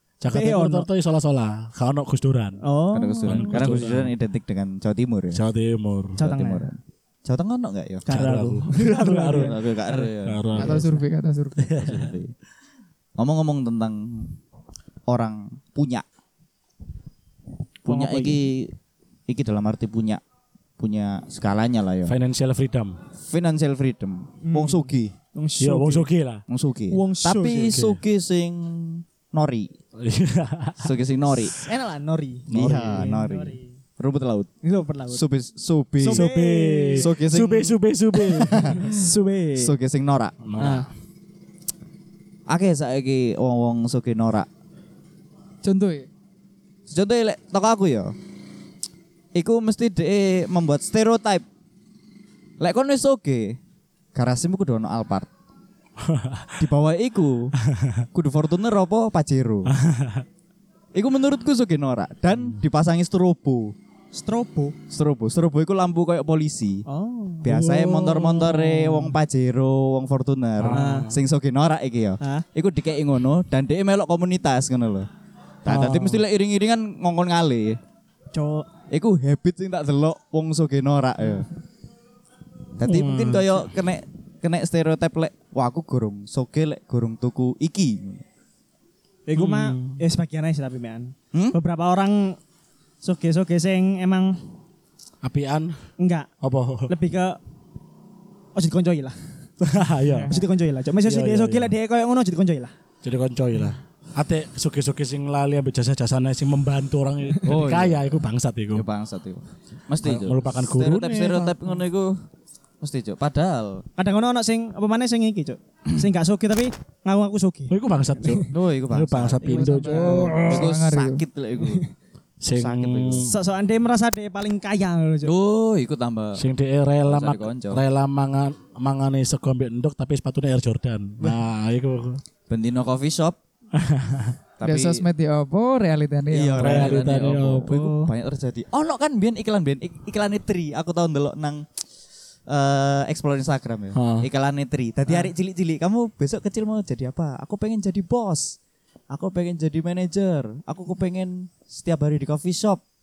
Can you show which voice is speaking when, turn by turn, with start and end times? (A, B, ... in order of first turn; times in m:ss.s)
0:00.2-0:02.6 A
0:00.3-0:00.9 B
0:02.6-0:03.7 B
0:02.9-0:05.4 C
0:03.2-0:04.1 A
0:05.3-0:06.2 A
0:06.2-0:06.7 B
0:06.2-0:08.1 C
0:08.0-0:09.9 B
0:08.1-0:10.8 A
0:09.3-0:10.9 C
0:10.6-0:11.6 D
0:11.6-0:12.1 A
0:11.8-0:12.3 C
0:13.2-0:14.4 C
0:15.1-0:16.0 C
0:17.8-0:18.7 C
0:17.9-0:18.4 B
0:19.3-0:20.2 C
0:20.8-0:22.1 C
0:22.0-0:23.0 A
0:23.2-0:25.1 C
0:24.4-0:26.1 B
0:25.6-0:26.4 A
0:26.5-0:29.7 C
0:26.9-0:27.9 B
0:30.0-0:30.9 A
0:30.8-0:31.5 C
0:31.5-0:33.7 B
0:32.5-0:33.0 A
0:32.5-0:34.5 C
0:34.6-0:35.2 B
0:35.1-0:36.2 C
0:36.0-0:37.0 B
0:36.1-0:38.8 A
0:37.0-0:39.0 C
0:38.2-0:39.7 B
0:39.6-0:40.4 C
0:40.4-0:40.9 A
0:40.6-0:40.9 B
0:42.5-0:44.5 C
0:45.6-0:46.1 D
0:46.9-0:48.1 C
0:49.3-0:51.4 C
0:52.6-0:53.6 C
0:54.1-0:55.3 C
0:56.0-0:56.7 A
0:56.6-0:57.5 C
0:57.6-0:58.0 A
0:58.1-0:59.7 C
0:59.7-1:00.2 A
1:00.9-1:03.7 C
1:04.1-1:04.7 B
1:04.9-1:06.8 C
1:06.9-1:07.5 B
1:07.4-1:15.1 C
1:07.4-1:09.2 A
1:10.6-1:11.2 A
1:10.7-1:11.1 B
1:15.6-1:17.8 C
1:15.7-1:16.2 B
1:18.3-1:18.7 B
1:18.9-1:21.5 C
1:22.8-1:28.2 C
1:22.8-1:23.6 A
1:29.3-1:32.4 B
1:29.4-1:30.0 A
1:33.0-1:34.4 B
1:35.2-1:35.8 A
1:36.0-1:36.3 B
1:36.4-1:36.9 A
1:36.9-1:37.4 B
1:38.5-1:39.2 B
1:39.6-1:40.4 A
1:40.1-1:40.4 D
1:40.3-1:42.7 B
1:41.0-1:41.7 A
1:43.0-1:48.8 A
1:47.4-1:48.0 C
1:48.7-1:52.1 C
1:50.0-1:51.6 A
1:52.8-1:53.8 C
1:54.0-1:58.5 B
1:57.7-2:00.7 A
1:58.5-1:59.7 C
1:59.4-2:01.2 D
1:59.6-2:00.4 B
2:00.4-2:01.8 C
2:01.6-2:01.9 B
2:02.4-2:03.3 A
2:02.5-2:03.3 C
2:03.2-2:05.3 B
2:05.2-2:06.4 C
2:06.3-2:12.2 A
2:07.0-2:07.8 C
2:12.5-2:13.4 C
2:13.8-2:14.3 A
2:14.6-2:15.0 C
2:14.6-2:17.0 D
2:16.3-2:21.6 C
2:16.6-2:17.7 A
2:17.7-2:18.0 B
2:22.5-2:28.6 C
2:23.9-2:24.3 A
2:29.1-2:32.8 C